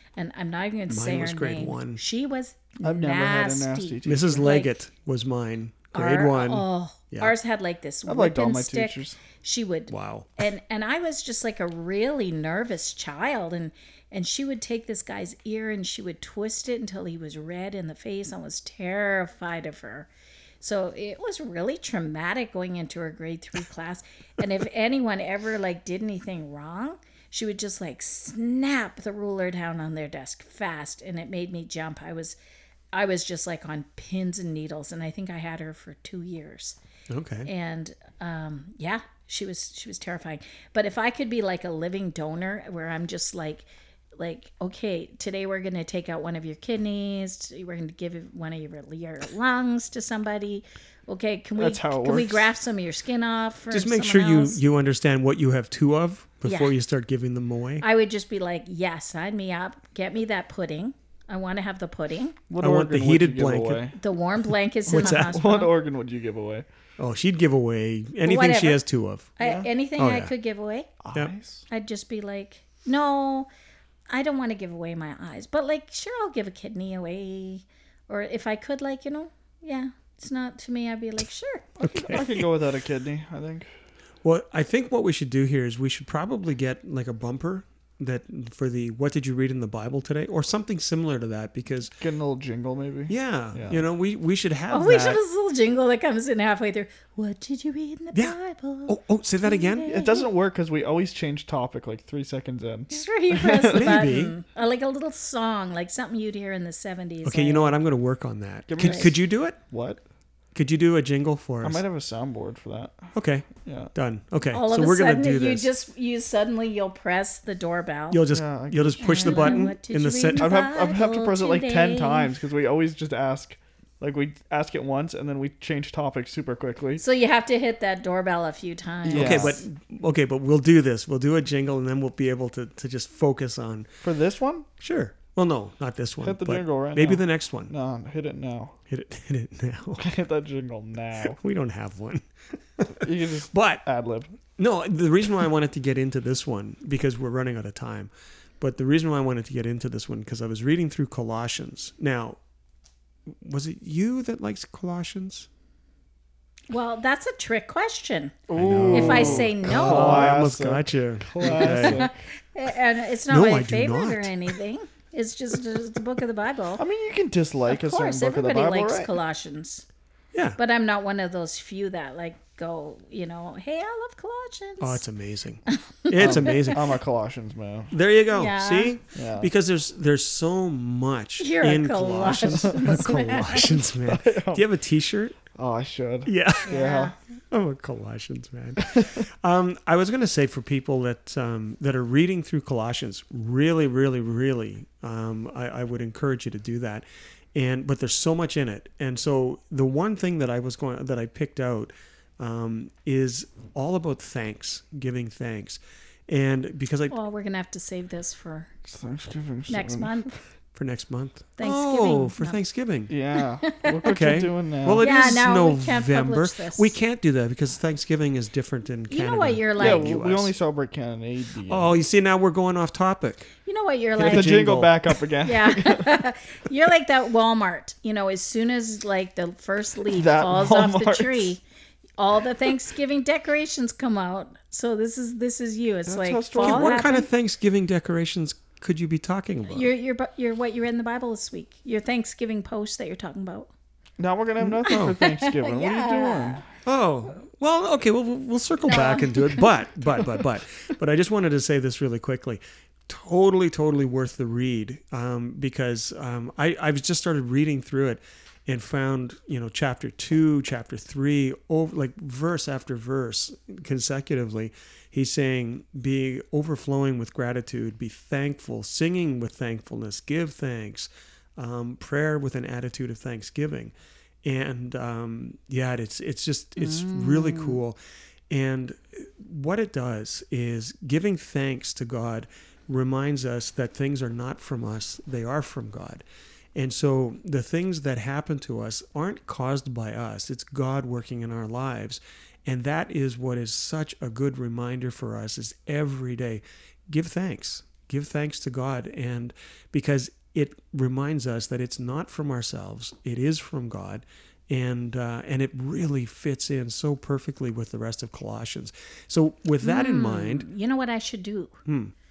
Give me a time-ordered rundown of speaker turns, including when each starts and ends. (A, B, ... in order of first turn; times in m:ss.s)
0:00.2-0:04.8 A
0:00.9-0:02.0 B
0:02.8-0:04.5 C
0:04.0-0:07.3 B
0:05.9-0:20.1 A
0:08.0-0:09.2 C
0:09.9-0:10.4 B
0:20.6-0:32.4 A
0:32.9-0:36.8 A
0:37.1-0:37.5 B
0:37.4-0:43.6 A
0:44.2-0:54.6 A
0:51.6-0:52.5 C
0:53.7-0:57.8 B
0:56.4-0:56.7 A
0:57.8-1:02.4 A
1:02.5-1:04.0 C
1:02.6-1:03.9 B
1:04.0-1:05.7 A
1:04.9-1:05.4 B
1:04.9-1:06.6 C
1:07.0-1:09.3 B
1:08.2-1:08.8 A
1:09.4-1:10.9 A
1:09.4-1:09.7 C
1:10.0-1:10.3 B
1:11.0-1:11.6 C
1:11.7-1:13.5 A
1:14.1-1:21.7 A
1:21.8-1:23.7 C
1:21.8-1:22.4 B
1:24.2-1:31.9 B
1:32.0-1:33.8 C
1:33.1-1:35.2 B
1:34.7-1:40.3 A
1:38.9-1:39.9 B
1:39.8-1:44.0 C
1:42.9-1:47.8 A
1:43.7-1:44.3 B
1:47.2-1:49.6 B
1:48.7-1:50.0 C
1:48.8-1:49.1 A
1:50.5-1:51.8 B
1:51.6-1:53.1 C
1:53.1-1:55.7 B
1:53.6-1:53.9 C
1:54.5-1:58.2 A
1:58.1-2:00.5 B
1:58.3-1:59.7 C
1:59.0-2:02.3 A
2:00.4-2:07.0 C
2:07.0-2:09.6 A
2:09.0-2:09.6 C
2:09.1-2:13.9 B
2:14.0-2:14.7 C
2:14.8-2:17.7 B
2:16.2-2:18.8 C
2:18.9-2:20.0 B
2:20.0-2:21.4 C
2:21.3-2:22.2 B
2:22.8-2:23.8 B
2:23.0-2:24.4 C
2:24.6-2:32.4 B
2:33.3-2:35.5 B
2:36.7-2:40.4 A
2:38.5-2:42.1 C
2:38.5-2:42.1 B
2:41.4-2:46.8 A
2:43.3-2:44.5 B
2:46.8-2:49.1 C
2:47.7-2:49.8 A
2:50.6-2:55.0 A
2:54.8-2:56.9 B
2:55.7-2:56.8 A
2:56.2-2:57.9 C
2:57.9-3:05.4 B
2:58.3-2:58.9 A
2:59.1-2:59.5 C
3:01.4-3:03.8 A
3:04.0-3:04.6 C
3:05.5-3:07.1 C
3:06.2-3:06.8 B
3:06.6-3:07.1 A
3:07.5-3:27.1 B
3:27.1-3:28.7 A
3:28.8-3:30.4 C
3:29.7-3:30.3 A
3:30.7-3:33.1 B
3:31.6-3:32.6 A
3:33.1-3:35.1 C
3:33.4-3:34.1 A
3:34.0-3:40.5 B
3:35.0-3:36.9 A
3:39.1-3:40.2 A
3:39.8-3:42.0 C
3:41.7-3:43.5 B
3:43.6-3:44.5 A
3:44.2-3:44.9 B
3:44.2-3:46.2 C
3:45.4-3:51.6 A
3:50.1-3:51.5 C
3:52.2-3:57.3 A
3:56.0-3:57.1 C
3:56.6-3:59.9 B
3:59.7-4:03.7 A
4:04.2-4:06.6 C
4:04.6-4:05.2 B
4:04.8-4:06.6 A
4:06.8-4:33.9 B
4:08.9-4:09.6 A
4:34.4-4:38.0 B
4:36.8-4:37.8 A
4:38.5-4:46.2 B
4:46.7-5:10.6 B
5:09.8-5:11.8 A
5:11.8-5:12.1 B